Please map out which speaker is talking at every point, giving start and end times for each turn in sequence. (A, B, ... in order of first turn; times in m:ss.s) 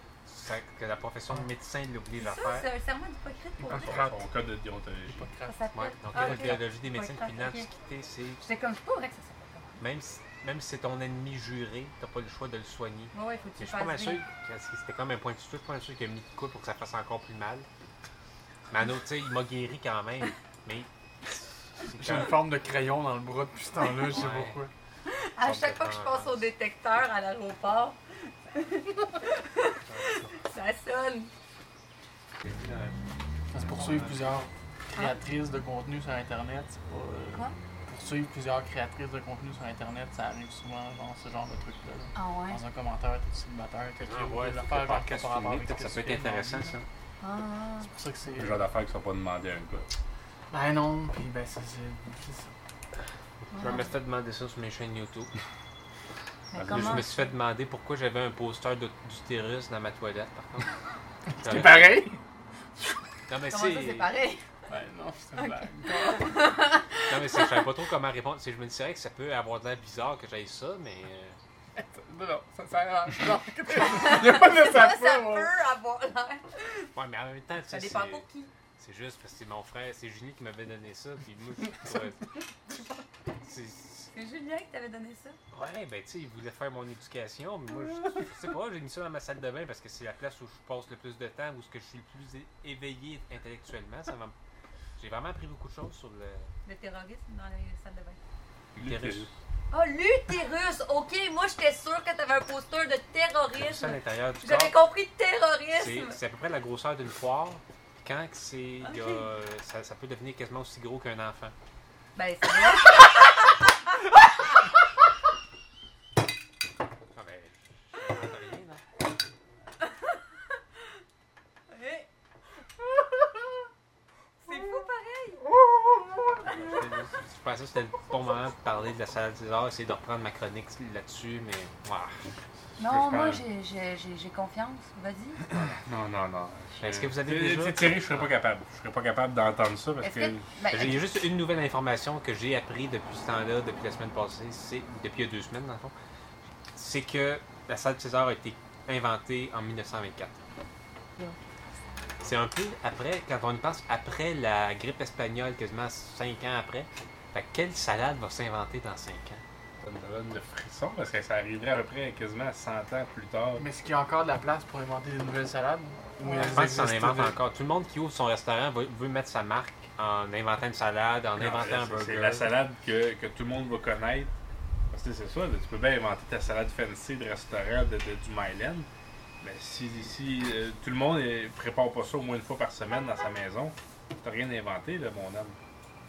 0:00.2-0:02.7 A
0:02.2-0:04.0 B
0:03.6-0:04.3 C
0:03.8-0:05.2 D
0:05.1-0:05.6 C
0:05.5-0:07.7 B
0:05.7-0:08.4 A
0:06.1-0:06.6 C
0:08.4-0:09.8 B
0:09.8-0:17.7 A
0:13.1-0:14.2 B
0:18.7-0:22.4 A
0:21.8-0:24.7 C
0:23.9-0:24.6 A
0:25.0-0:31.3 B
0:25.4-0:26.5 A
0:29.8-0:30.3 A
0:32.4-0:33.0 A
0:33.5-0:46.7 C
0:33.6-0:34.3 A
0:42.1-0:42.6 B
0:44.0-0:46.8 A
0:47.2-0:47.9 B
0:47.8-0:48.6 C
0:48.4-0:49.9 D
0:50.5-0:52.5 C
0:53.5-0:55.3 A
0:53.5-0:53.9 B
0:56.5-0:57.1 B
0:56.6-0:57.0 D
0:56.6-1:00.7 A
1:01.4-1:02.0 A
1:01.4-1:02.2 C
1:03.3-1:04.1 A
1:03.5-1:04.4 B
1:04.7-1:06.4 C
1:05.4-1:07.2 B
1:07.1-1:11.4 A
1:11.8-1:15.5 C
1:13.9-1:16.8 B
1:16.9-1:18.2 A
1:17.7-1:18.5 B
1:18.8-1:22.8 A
1:23.4-1:24.1 A
1:24.1-1:25.4 B
1:25.5-1:34.3 A
1:35.0-1:36.5 A
1:36.6-1:38.2 B
1:38.8-1:39.3 D
1:38.8-1:39.3 A
1:39.7-1:46.2 B
1:43.5-1:44.7 A
1:45.7-1:51.5 A
1:52.1-1:53.9 B
1:57.1-1:58.8 A
2:01.7-2:02.1 B
2:04.4-2:05.4 B
2:06.4-2:12.2 A
2:12.8-2:15.4 B
2:12.8-2:13.4 D
2:15.5-2:20.4 D
2:16.8-2:18.3 A
2:20.0-2:21.0 B
2:20.7-2:25.9 A
2:26.7-2:30.4 A
2:32.2-2:39.4 A
2:39.8-2:43.6 D
2:43.6-2:47.4 C
2:46.2-2:46.5 B
2:46.4-2:52.5 A
2:51.4-2:54.3 D
2:54.9-2:58.9 D
2:59.4-3:05.6 D